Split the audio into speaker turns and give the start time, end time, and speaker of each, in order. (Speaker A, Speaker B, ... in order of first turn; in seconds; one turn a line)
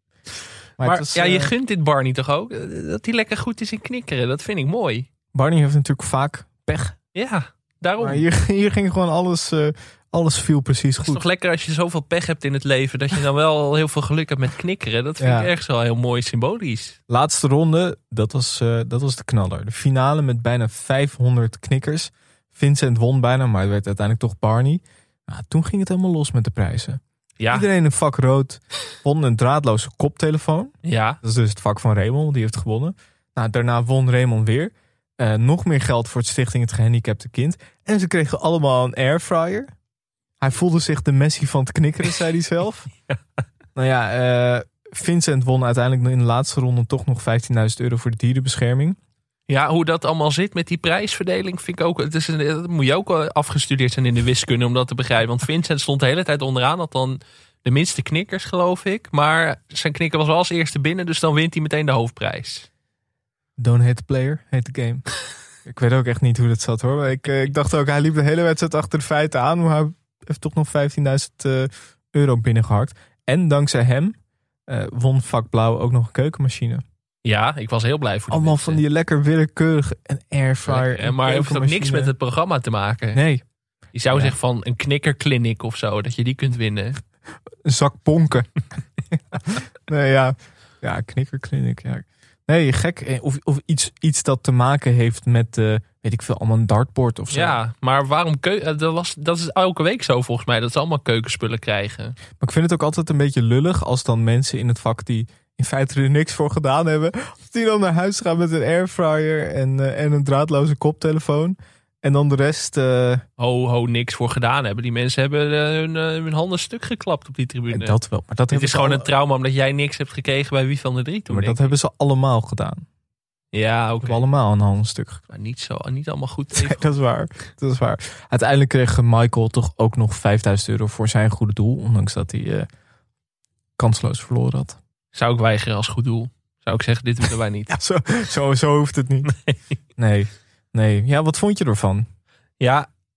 Speaker A: 0.8-1.5
Speaker B: 0.8-5.1
Speaker A: 5.3-7.0
Speaker B: 7.1-8.2
Speaker A: 8.0-11.2
Speaker B: 11.0-17.0
Speaker A: 15.2-15.5
Speaker A: 17.1-39.7
Speaker B: 27.4-27.7
Speaker B: 30.8-31.2
Speaker A: 40.4-42.9
Speaker A: 43.7-49.0
Speaker B: 49.5-62.7
Speaker A: 63.6-65.1
Speaker A: 65.6-74.2
Speaker A: 74.7-76.8
Speaker B: 77.2-78.8
Speaker A: 78.3-82.1
Speaker B: 80.7-83.2
Speaker A: 83.1-83.4
Speaker B: 83.9-87.0
Speaker A: 87.6-88.5
Speaker A: 89.1-97.6
Speaker B: 97.3-102.2
Speaker A: 102.4-113.2
Speaker B: 113.4-118.0
Speaker A: 117.7-119.1
Speaker B: 118.5-121.7
Speaker A: 121.3-122.8
Speaker B: 123.5-124.2
Speaker A: 124.0-125.2
Speaker B: 125.3-126.8
Speaker A: 126.5-132.7
Speaker A: 133.8-134.8
Speaker B: 135.1-137.7
Speaker A: 137.7-139.3
Speaker B: 139.2-139.6
Speaker A: 140.0-142.1
Speaker B: 142.6-142.9